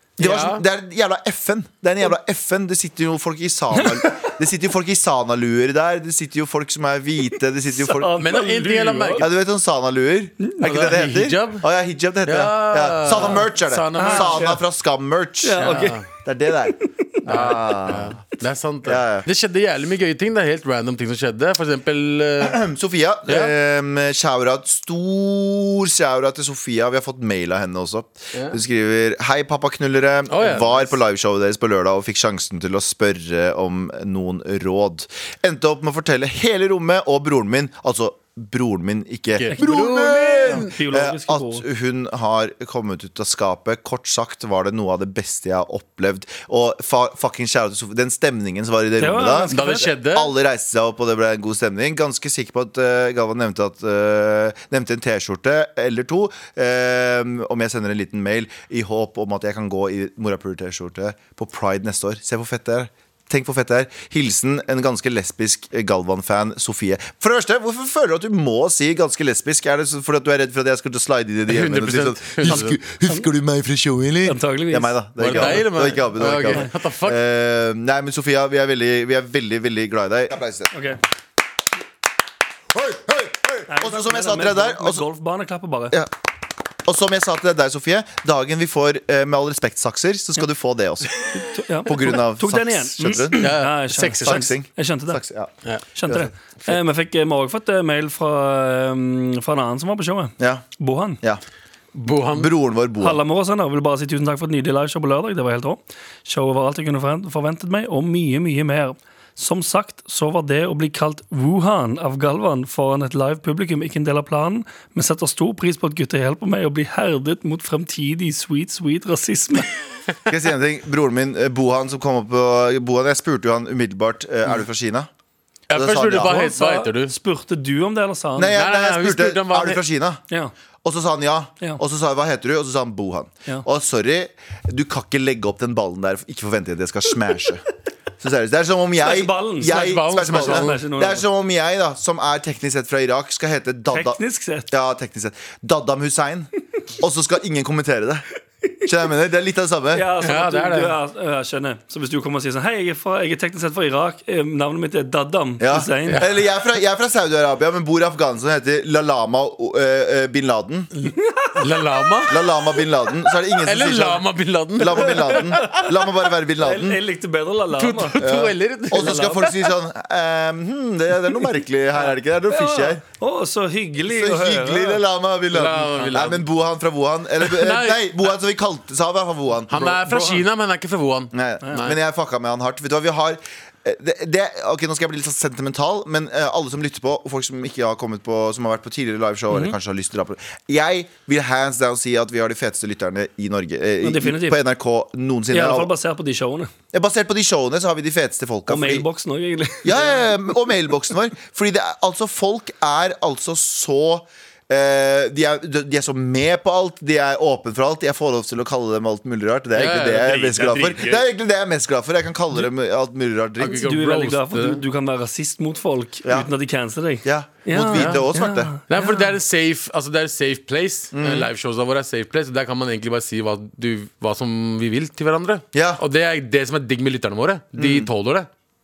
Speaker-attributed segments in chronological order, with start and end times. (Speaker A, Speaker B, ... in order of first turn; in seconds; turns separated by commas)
Speaker A: 0.2-8.1, Speaker B: 0.2-0.6, Speaker C: 7.8-9.3, Speaker B: 8.2-9.3, Speaker A: 9.2-18.2, Speaker B: 10.6-11.7, Speaker B: 12.2-14.5, Speaker C: 13.9-14.6, Speaker C: 15.4-16.0, Speaker B: 15.6-16.1, Speaker B: 17.2-22.6, Speaker A: 18.9-19.3, Speaker A: 22.4-80.7, Speaker B: 23.3-23.5, Speaker B: 30.3-30.9, Speaker B: 39.4-40.7, Speaker C: 40.5-41.6, Speaker C: 49.0-49.9, Speaker B: 49.5-50.3, Speaker B: 71.5-72.8, Speaker C: 74.2-75.6, Speaker B: 75.2-77.2, Speaker C: 80.7-81.0, Speaker A: 82.7-85.0, Speaker C: 83.7-86.0, Speaker A: 86.8-91.2, Speaker C: 91.4-95.2, Speaker A: 91.9-95.5, Speaker B: 93.4-94.5, Speaker C: 96.0-101.2, Speaker A: 100.4-100.7, Speaker B: 101.9-102.5, Speaker A: 102.3-103.2, Speaker C: 103.0-119.7, Speaker A: 120.3-125.1, Speaker A: 125.7-126.5, Speaker B: 125.7-127.1, Speaker C: 126.2-128.6, Speaker A: 128.4-130.2, Speaker B: 128.6-129.8, Speaker A: 130.8-137.6, Speaker A: 138.2-148.2, Speaker C: 139.0-141.2, Speaker B: 139.7-140.8, Speaker C: 143.9-144.7, Speaker A: 148.8-150.1, Speaker C: 149.9-156.2, Speaker B: 150.2-151.0, Speaker A: 155.6-160.9, Speaker B: 161.0-162.4, Speaker C: 161.1-161.6, Speaker A: 162.3-167.0, Speaker B: 163.6-165.9, Speaker C: 166.6-168.2, Speaker B: 167.7-169.7, Speaker A: 168.2-173.0, Speaker C: 169.0-169.4, Speaker C: 172.5-175.0, Speaker A: 174.0-180.4, Speaker B: 175.5-176.5, Speaker B: 177.4-178.2, Speaker B: 179.7-181.9, Speaker A: 181.3-195.9, Speaker C: 189.5-189.8, Speaker C: 194.0-194.6, Speaker C: 195.5-196.7, Speaker A: 196.9-199.1, Speaker C: 198.7-200.3, Speaker A: 199.8-213.9, Speaker B: 209.8-211.3, Speaker B: 213.6-214.8, Speaker C: 213.7-219.2, Speaker A: 216.2-216.5, Speaker A: 217.2-218.7, Speaker B: 217.9-218.2, Speaker B: 218.9-228.5, Speaker A: 221.1-221.5, Speaker A: 225.7-226.0, Speaker A: 227.8-228.1